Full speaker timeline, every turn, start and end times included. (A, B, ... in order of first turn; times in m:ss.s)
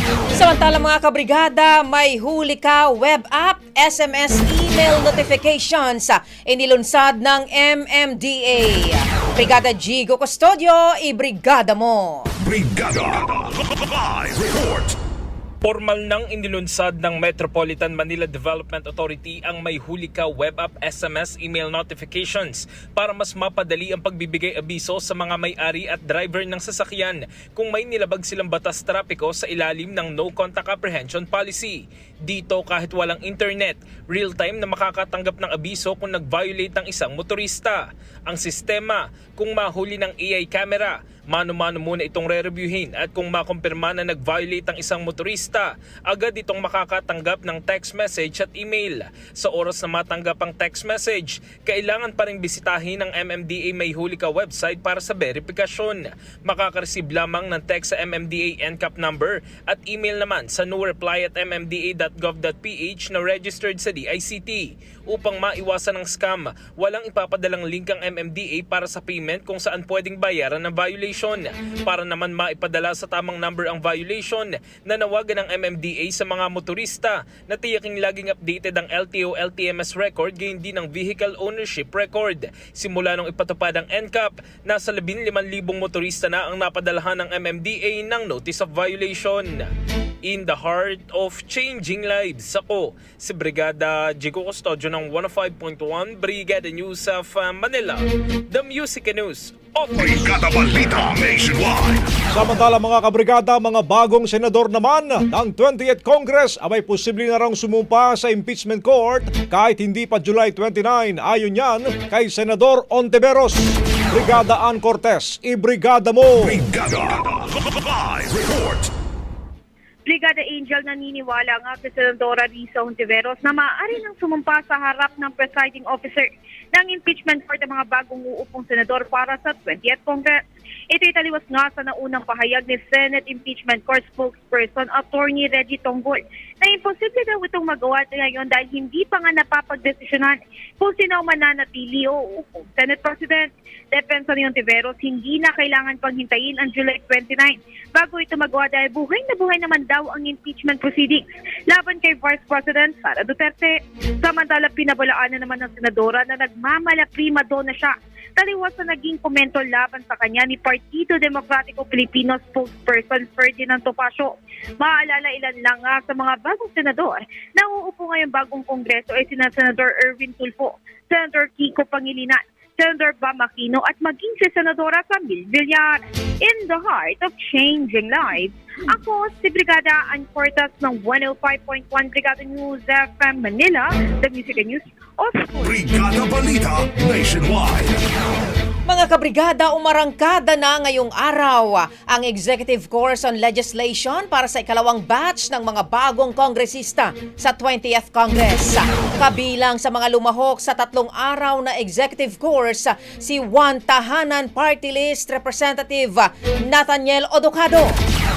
0:00.3-0:12.3 A
0:12.4-0:15.0 B
0:15.6-1:29.7 C
1:30.2-1:39.9 C
1:39.9-1:42.0 B
1:42.3-1:56.6 D
1:56.4-1:58.9 B
2:00.0-2:10.4 E
2:10.9-3:05.8 E
3:05.6-3:08.0 B
3:08.8-3:28.0 A